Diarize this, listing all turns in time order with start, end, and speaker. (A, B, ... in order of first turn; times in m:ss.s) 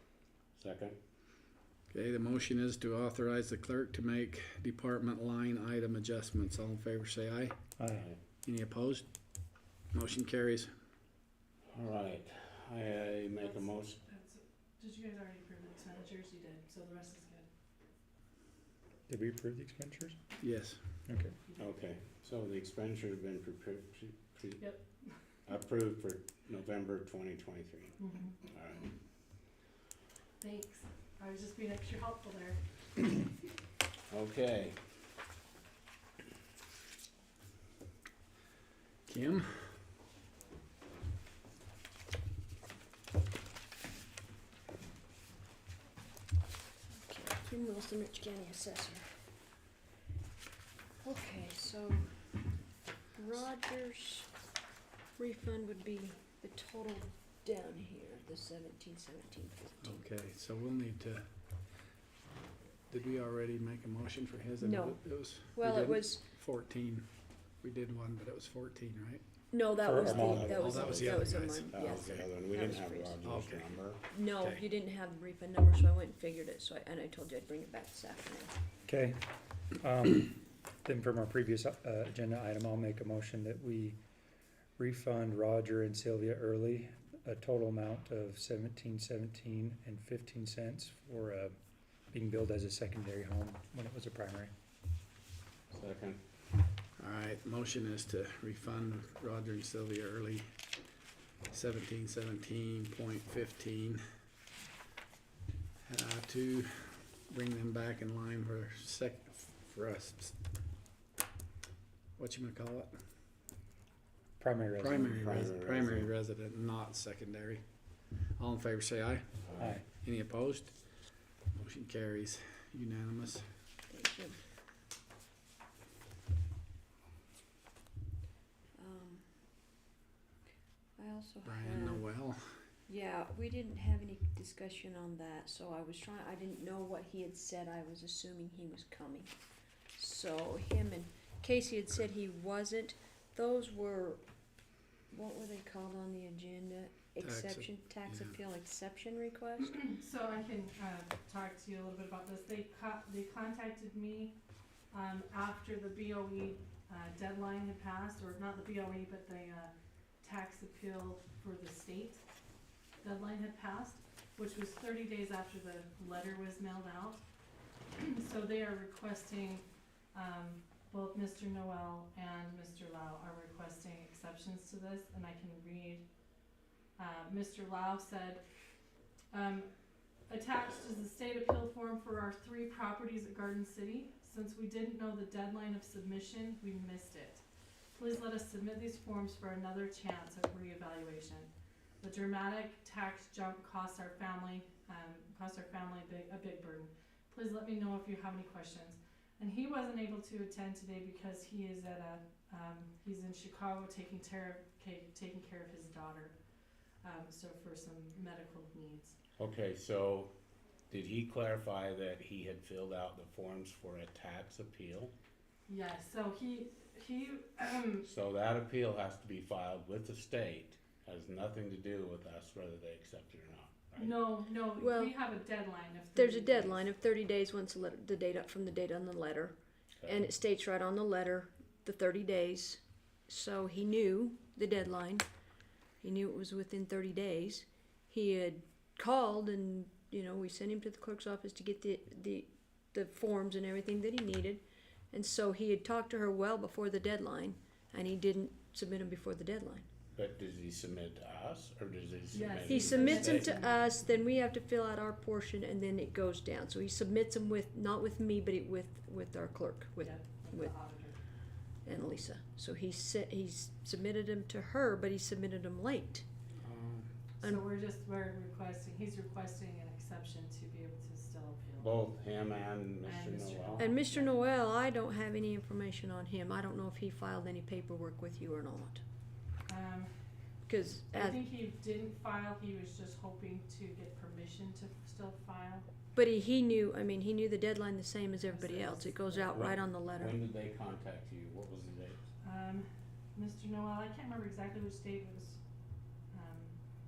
0:00.6-0:01.0 A
0:01.9-0:07.6 B
0:07.8-0:08.1 C
0:07.9-0:08.2 A
0:08.4-0:09.1 B
0:09.9-0:10.7 B
0:11.7-0:14.0 A
0:14.1-0:17.5 D
0:19.1-0:20.2 C
0:20.4-0:20.8 B
0:21.1-0:21.4 C
0:21.6-0:24.6 A
0:24.6-0:25.1 D
0:25.5-0:28.9 A
0:28.0-0:28.4 D
0:30.4-0:32.6 D
0:34.1-0:34.8 A
0:39.1-0:39.6 B
0:47.0-0:49.1 E
0:51.0-0:52.2 E
0:53.2-0:54.3 E
0:55.2-1:00.0 E
0:59.8-1:01.3 B
1:02.9-1:09.2 B
1:04.6-1:05.0 E
1:05.6-1:06.2 E
1:09.5-1:13.2 E
1:09.8-1:10.8 C
1:10.0-1:14.1 A
1:10.1-1:11.8 B
1:13.2-1:13.8 B
1:14.1-1:18.5 E
1:18.9-1:24.0 C
1:24.8-1:31.6 C
1:32.1-1:34.5 C
1:35.7-1:36.2 A
1:37.0-1:40.5 B
1:41.5-1:44.0 B
1:45.8-1:50.3 B
1:52.2-1:53.0 B
1:54.4-1:55.2 C
1:54.8-1:57.6 B
1:55.0-1:56.1 A
1:58.4-2:00.8 B
1:59.6-1:59.8 C
2:01.5-2:03.4 B
2:03.9-2:04.4 E
2:08.8-2:09.3 E
2:11.0-2:12.0 E
2:11.4-2:12.4 B
2:12.9-2:19.3 E
2:20.0-2:24.2 E
2:25.1-2:29.8 E
2:27.2-2:28.4 B
2:29.8-2:34.4 D
2:34.9-2:42.2 D
2:43.0-2:47.2 D
2:48.0-2:56.1 D
2:57.0-2:58.4 D
2:59.3-2:59.7 D
3:00.3-3:07.4 D
3:08.0-3:26.4 D
3:27.0-3:29.2 D
3:29.4-3:30.3 A
3:30.9-3:35.1 A
3:35.7-3:38.1 D
3:38.0-3:44.2 A
3:44.0-3:46.8 D
3:44.8-3:45.1 E
3:46.2-3:55.3 E
3:56.0-4:09.8 E
4:10.2-4:13.6 A
4:12.3-4:14.1 D
4:12.6-4:20.8 E
4:20.0-4:21.2 D
4:21.8-4:26.2 E
4:26.6-4:27.1 B
4:27.4-4:31.9 D
4:27.4-4:27.7 E
4:31.8-4:33.8 A
4:33.0-4:34.3 D
4:33.8-4:39.0 E
4:39.7-4:40.1 D
4:40.7-4:41.4 E
4:41.1-4:45.8 D
4:46.2-4:50.4 E
4:48.4-4:49.6 D
4:49.5-4:52.2 A
4:52.4-4:55.6 D
4:56.3-4:56.8 D